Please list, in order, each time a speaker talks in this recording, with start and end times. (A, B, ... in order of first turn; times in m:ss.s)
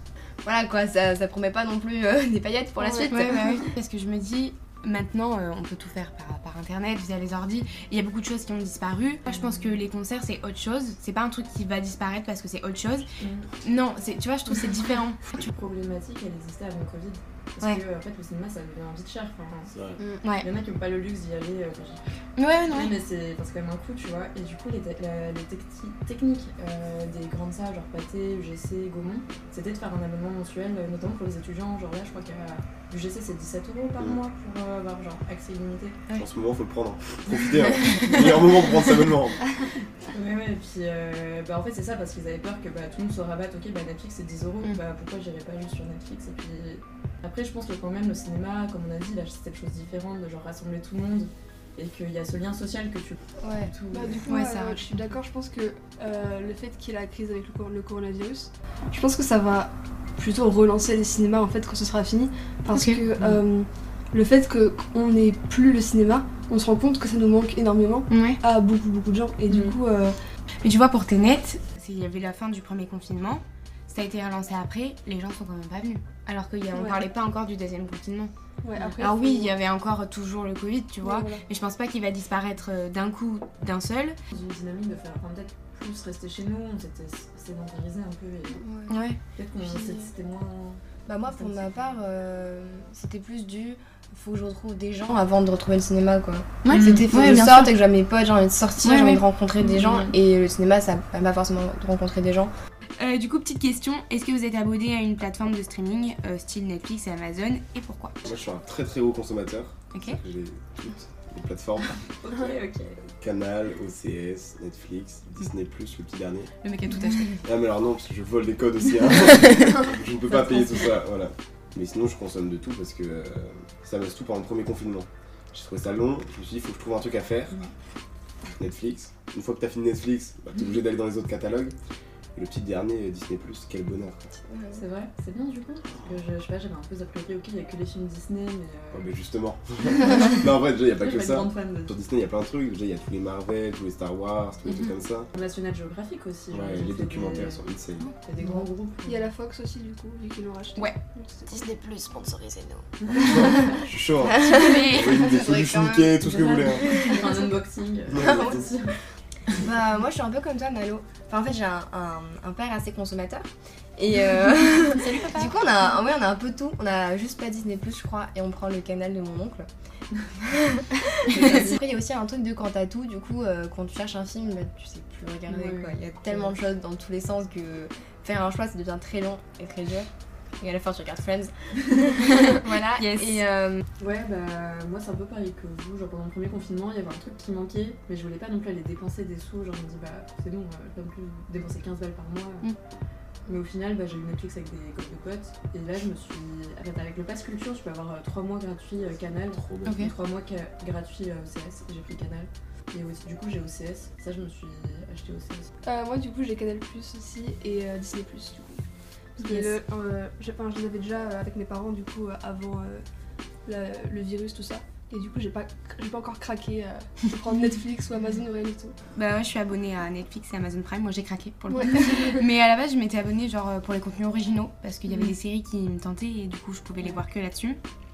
0:00.4-0:03.7 A
0:02.8-0:03.2 B
0:03.1-0:13.1 C
0:13.2-0:13.5 D
0:13.6-0:15.4 C
0:15.3-0:19.7 D
0:19.7-0:20.0 E
0:20.2-0:20.5 C
0:20.4-0:36.0 D
0:22.4-0:23.0 C
0:36.2-0:39.4 E
0:40.1-0:54.3 D
0:53.4-0:53.7 A
0:53.9-1:10.2 B
0:54.3-0:55.0 C
1:02.7-1:03.0 C
1:08.1-1:08.4 C
1:09.5-1:09.8 D
1:10.6-1:18.3 C
1:16.7-1:17.0 B
1:18.6-1:19.5 B
1:19.0-1:24.2 C
1:21.0-1:21.4 B
1:24.3-1:28.6 D
1:28.5-1:29.0 B
1:28.9-1:29.2 C
1:29.4-1:31.8 D
1:31.1-1:42.5 A
1:36.6-1:37.7 C
1:38.8-1:39.2 C
1:39.8-1:40.1 D
1:43.0-1:48.2 C
1:48.2-1:52.0 E
1:49.9-1:50.2 C
1:52.2-1:53.0 D
1:53.2-1:56.5 E
1:56.6-1:57.4 C
1:57.4-2:07.6 E
2:00.5-2:00.7 D
2:08.6-2:11.8 E
2:12.4-2:14.3 E
2:14.5-2:14.8 A
2:14.7-2:19.1 D
2:18.9-2:25.3 E
2:20.0-2:20.3 D
2:21.0-2:22.0 D
2:25.3-2:27.6 D
2:26.5-2:28.1 E
2:28.2-2:29.3 D
2:29.1-2:31.7 B
2:31.5-2:36.2 A
2:33.0-2:33.5 D
2:33.2-2:36.9 E
2:34.4-2:35.2 C
2:36.2-2:39.0 D
2:36.8-2:37.5 A
2:38.1-2:38.6 E
2:38.2-2:38.7 A
2:39.5-2:49.7 A
2:44.9-2:45.6 C
2:50.4-3:00.1 A
2:51.4-2:51.7 D
2:55.5-2:56.5 D
3:00.6-3:03.8 A
3:02.3-3:03.5 C
3:04.0-3:12.7 D
3:13.5-3:25.7 D
3:19.5-3:20.1 E
3:19.8-3:20.1 C
3:25.8-3:28.8 B
3:29.4-3:33.0 B
3:29.4-3:29.7 C
3:33.7-3:39.0 B
3:39.2-3:47.8 C
3:41.7-3:42.4 B